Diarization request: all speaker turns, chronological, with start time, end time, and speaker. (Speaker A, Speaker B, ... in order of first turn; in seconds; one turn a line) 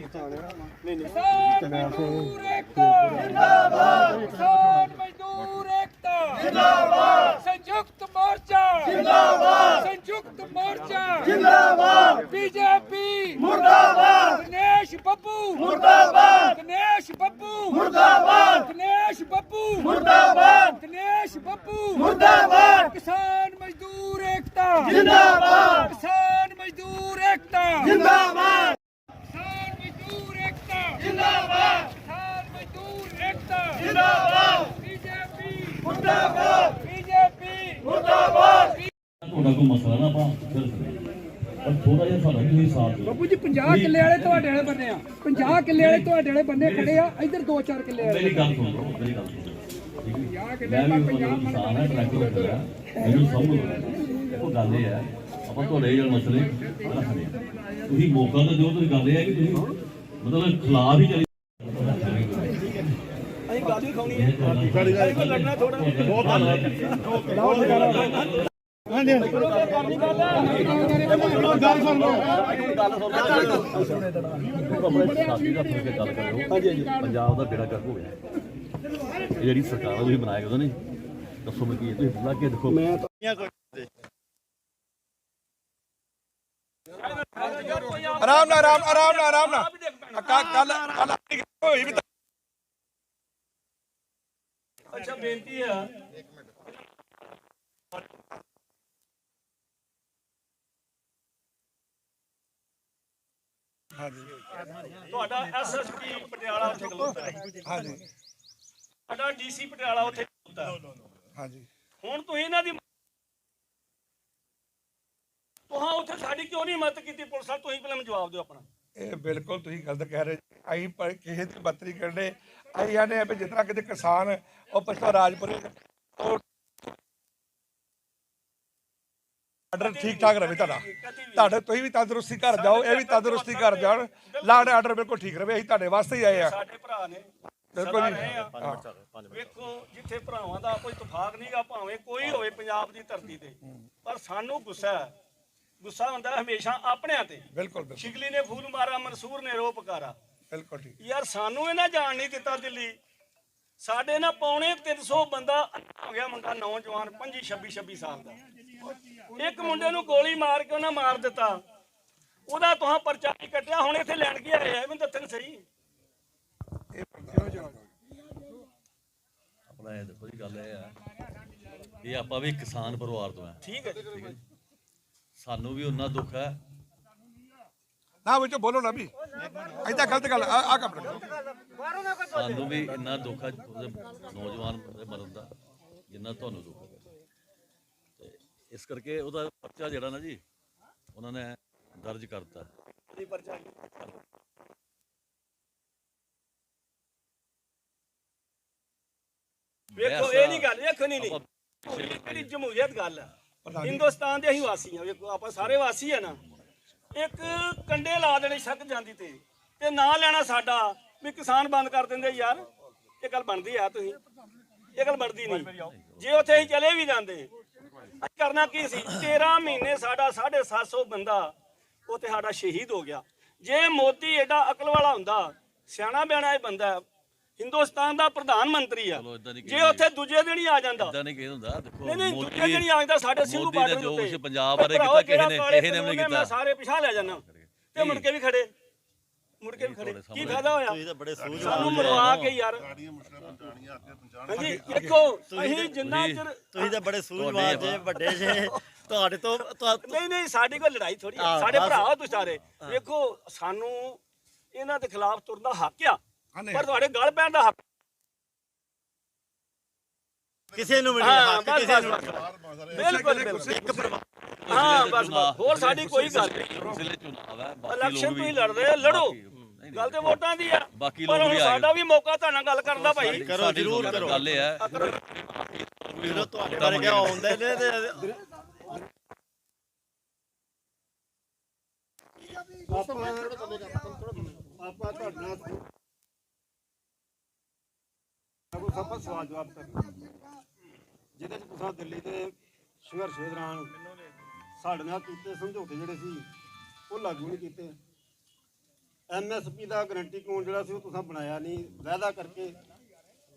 Speaker A: 1.0-28.7
Speaker A: 29.3-38.8
Speaker B: 39.2-44.7
Speaker A: 43.2-48.2
Speaker B: 45.4-47.3
Speaker B: 47.9-62.7
Speaker A: 51.4-52.1
Speaker C: 63.5-66.5
Speaker B: 64.1-68.5
Speaker C: 67.3-68.2
Speaker C: 69.0-74.2
Speaker B: 70.3-73.9
Speaker B: 74.5-78.2
Speaker C: 76.5-76.9
Speaker B: 79.3-80.8
Speaker B: 81.4-82.9
Speaker D: 83.2-83.8
Speaker C: 86.9-91.1
Speaker E: 88.2-92.0
Speaker C: 94.9-95.9
Speaker E: 104.0-104.3
Speaker C: 105.0-107.5
Speaker E: 107.6-108.0
Speaker C: 109.1-110.8
Speaker E: 111.3-111.6
Speaker C: 112.0-112.8
Speaker C: 115.7-118.6
Speaker E: 119.0-126.4
Speaker E: 129.7-136.5
Speaker C: 129.8-131.5
Speaker C: 132.5-134.8
Speaker C: 136.3-137.3
Speaker E: 137.7-138.8
Speaker C: 137.8-138.5
Speaker D: 138.3-139.6
Speaker C: 139.3-145.1
Speaker C: 145.8-150.1
Speaker E: 147.5-148.1
Speaker E: 150.5-150.9
Speaker C: 151.0-152.9
Speaker C: 153.8-158.4
Speaker C: 159.3-161.6
Speaker C: 162.5-165.6
Speaker E: 166.9-167.8
Speaker B: 169.7-170.9
Speaker B: 172.0-174.4
Speaker C: 173.6-174.1
Speaker B: 175.4-176.6
Speaker E: 178.2-179.1
Speaker E: 179.7-181.2
Speaker B: 182.1-185.5
Speaker B: 186.1-187.0
Speaker B: 188.2-190.4
Speaker B: 191.1-192.7
Speaker C: 193.1-193.9
Speaker B: 199.9-202.5
Speaker C: 200.0-203.3
Speaker E: 203.6-204.1
Speaker C: 203.8-206.4
Speaker B: 205.6-206.6
Speaker C: 207.1-212.6
Speaker C: 213.2-214.2
Speaker C: 214.9-217.5
Speaker B: 215.4-216.7
Speaker C: 218.2-221.5
Speaker C: 222.1-227.0
Speaker C: 227.6-231.1
Speaker B: 229.1-230.1
Speaker B: 231.0-232.9
Speaker C: 232.0-237.4
Speaker B: 233.4-236.5
Speaker B: 237.1-238.3
Speaker C: 237.9-238.7
Speaker C: 239.6-242.9
Speaker B: 239.8-240.8
Speaker D: 240.8-241.8
Speaker F: 241.4-242.0
Speaker B: 241.4-244.3
Speaker C: 244.5-247.1
Speaker E: 244.5-245.2
Speaker D: 245.5-245.9
Speaker B: 246.0-246.4
Speaker D: 246.7-248.6
Speaker B: 247.3-248.2
Speaker F: 248.1-248.6
Speaker C: 248.1-248.8
Speaker D: 249.1-250.2
Speaker C: 250.0-254.2
Speaker D: 251.4-252.1
Speaker C: 254.7-256.2
Speaker E: 256.6-256.9
Speaker C: 256.7-257.8
Speaker F: 260.7-262.0
Speaker D: 260.7-262.4
Speaker C: 261.1-263.8
Speaker E: 262.9-264.2
Speaker F: 263.7-264.0
Speaker D: 263.7-264.2
Speaker B: 264.6-270.4
Speaker C: 264.7-266.9
Speaker C: 267.9-269.4
Speaker C: 269.9-275.4
Speaker B: 270.9-271.9
Speaker B: 272.9-277.9
Speaker D: 273.2-274.4
Speaker D: 276.2-278.2
Speaker F: 277.7-278.4
Speaker F: 282.8-285.8
Speaker F: 288.7-290.3
Speaker F: 291.4-293.9
Speaker F: 294.8-296.5
Speaker F: 297.1-298.0
Speaker F: 299.3-302.8